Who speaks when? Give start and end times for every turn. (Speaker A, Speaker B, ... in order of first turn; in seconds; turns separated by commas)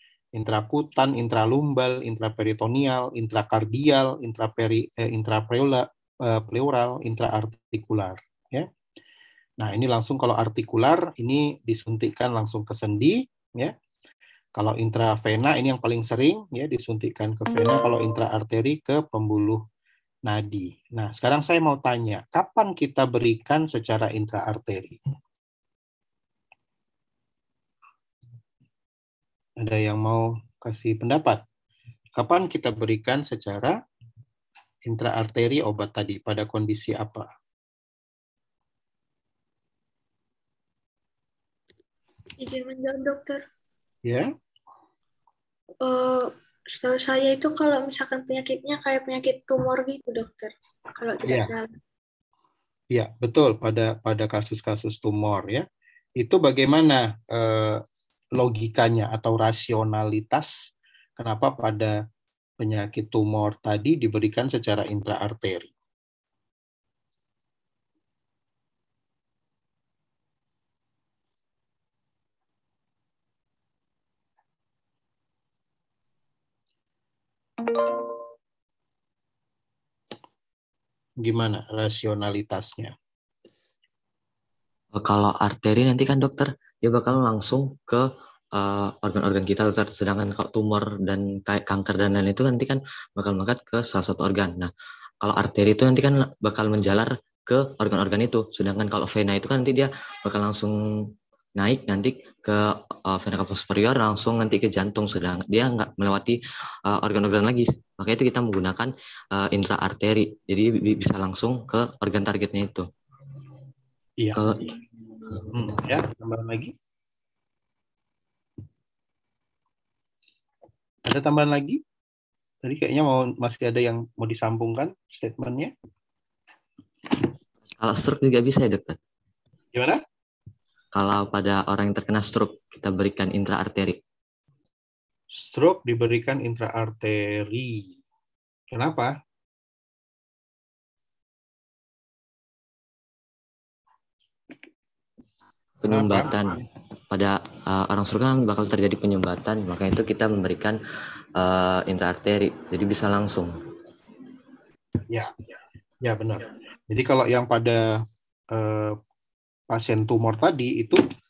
Speaker A: 0.3-8.7, Speaker A: 9.6-13.7, Speaker A: 14.6-19.6, Speaker A: 20.2-25.0, Speaker A: 29.6-31.4, Speaker A: 32.1-33.8, Speaker A: 34.9-37.3, Speaker B: 42.4-43.4, Speaker B: 45.8-51.7, Speaker A: 51.2-51.5, Speaker A: 52.9-55.6, Speaker A: 56.2-57.8, Speaker A: 58.4-60.5, Speaker A: 61.2-61.9, Speaker A: 62.6-65.7, Speaker A: 81.2-82.9, Speaker C: 84.9-94.7, Speaker C: 95.2-106.4, Speaker C: 106.9-112.9, Speaker C: 114.3-114.6, Speaker C: 115.3-115.7, Speaker A: 115.5-116.7, Speaker A: 121.0-121.8, Speaker A: 122.6-125.7, Speaker C: 127.8-129.0, Speaker A: 129.7-130.0, Speaker C: 130.9-134.0, Speaker A: 135.3-138.0, Speaker A: 138.7-139.1, Speaker C: 145.8-150.8, Speaker A: 145.9-146.6, Speaker C: 151.4-153.5, Speaker A: 156.0-158.0, Speaker A: 158.5-159.0, Speaker A: 159.7-161.0